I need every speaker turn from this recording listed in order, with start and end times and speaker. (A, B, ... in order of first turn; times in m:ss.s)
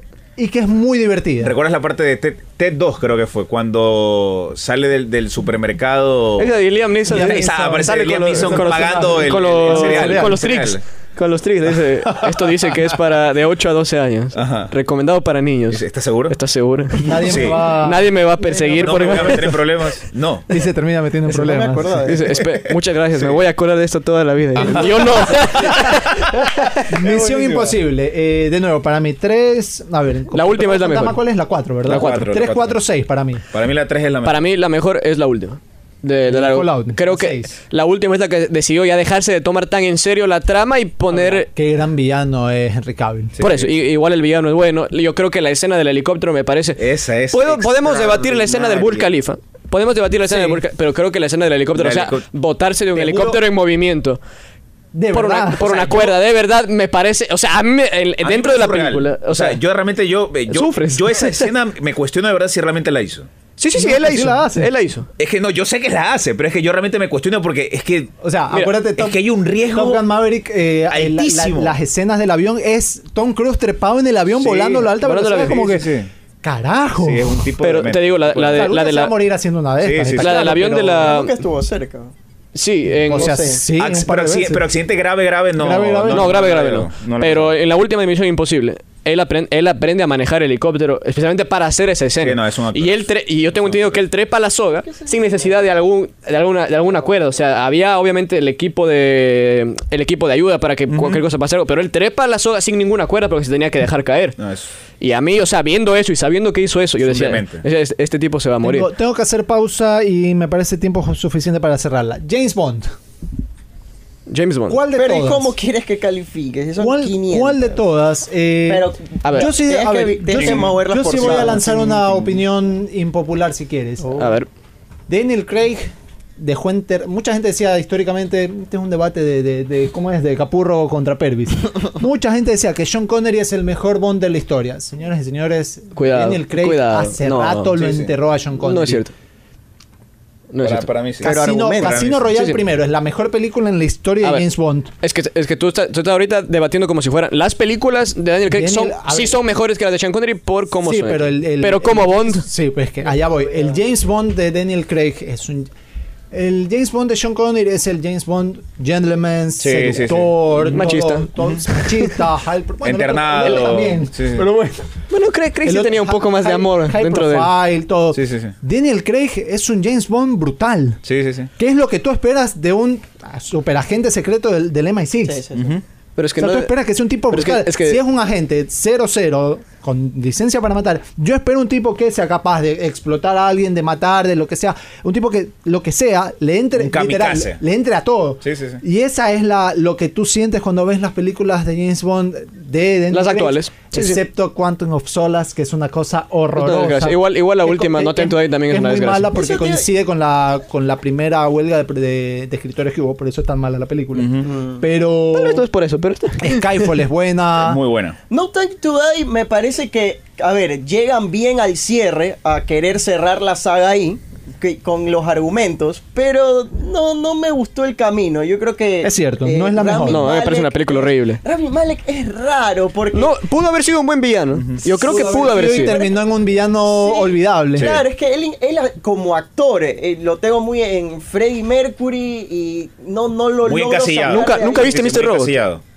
0:00.4-0:01.5 A
0:01.4-0:06.5 B
0:06.4-0:19.6 C
0:07.1-0:10.4 A
0:07.1-0:10.8 B
0:14.3-0:14.7 B
0:15.7-0:16.3 B
0:17.0-0:19.6 A
0:17.2-0:17.6 B
0:18.8-0:20.5 B
0:20.5-0:22.1 A
0:21.3-0:22.4 D
0:22.0-0:26.8 C
0:24.6-0:27.7 B
0:26.8-0:33.4 A
0:30.3-0:31.2 C
0:31.9-0:32.8 B
0:31.9-0:32.3 C
0:33.5-0:34.4 B
0:34.2-0:41.5 C
0:36.3-0:37.5 A
0:41.1-0:43.4 A
0:43.4-0:43.7 B
0:43.4-0:54.2 C
0:46.8-0:49.1 B
0:51.7-0:52.2 B
0:52.9-0:53.4 B
0:54.9-0:55.7 A
0:55.1-0:59.6 C
0:55.6-0:56.2 B
0:58.2-1:03.3 B
1:00.5-1:01.5 C
1:03.6-1:05.1 C
1:03.7-1:04.7 A
1:05.2-1:08.1 B
1:08.2-1:17.5 A
1:08.5-1:08.8 C
1:09.0-1:10.0 B
1:10.9-1:11.7 B
1:14.3-1:16.1 B
1:15.0-1:15.6 C
1:17.0-1:18.7 B
1:17.6-1:19.1 C
1:18.5-1:21.2 A
1:19.8-1:20.4 B
1:20.1-1:21.4 C
1:21.0-1:22.1 D
1:22.5-1:23.4 C
1:22.9-1:24.6 A
1:23.1-1:23.6 D
1:23.8-1:27.6 B
1:25.6-1:26.3 A
1:26.1-1:44.4 C
1:32.2-1:34.0 B
1:34.8-1:35.5 D
1:40.9-1:41.2 B
1:44.4-1:44.7 B
1:45.0-1:48.9 C
1:47.0-1:47.6 B
1:48.6-1:52.9 A
1:54.3-1:54.8 C
1:54.7-1:55.5 A
1:54.9-1:57.8 D
1:56.8-2:04.3 A
1:58.7-2:02.0 D
1:59.2-1:59.5 C
2:00.3-2:02.2 B
2:04.2-2:04.5 C
2:05.1-2:19.0 A
2:15.9-2:17.9 C
2:17.8-2:18.1 B
2:18.6-2:19.1 C
2:20.5-2:20.9 C
2:20.6-2:22.3 B
2:21.2-2:24.9 A
2:21.2-2:22.1 D
2:22.3-2:22.6 C
2:25.0-2:32.4 C
2:28.5-2:29.4 A
2:30.8-2:35.7 A
2:36.3-2:44.9 A
2:39.6-2:40.7 B
2:40.6-2:42.2 C
2:42.8-2:44.4 B
2:45.1-2:47.5 C
2:45.6-2:51.0 A
2:48.1-2:48.5 B
2:51.0-2:51.5 B
2:51.6-2:55.4 A
2:55.2-2:55.8 D
2:55.5-2:55.8 B
2:56.2-2:56.7 C
2:56.4-3:25.6 A
2:57.3-2:58.0 C
3:06.8-3:07.6 B
3:08.4-3:08.8 B
3:13.1-3:14.2 C
3:16.6-3:19.3 C
3:19.3-3:19.8 D
3:24.1-3:24.5 B
3:24.4-3:24.8 D
3:25.3-3:26.9 C
3:26.4-3:27.8 A
3:27.6-3:28.2 B
3:28.3-3:43.3 D
3:39.0-3:40.3 A
3:40.0-3:41.4 C
3:43.1-3:46.0 C
3:45.0-3:46.3 D
3:45.0-3:47.9 A
3:46.8-3:55.0 D
3:47.8-3:48.0 B
3:53.6-3:55.8 B
3:54.3-3:55.6 C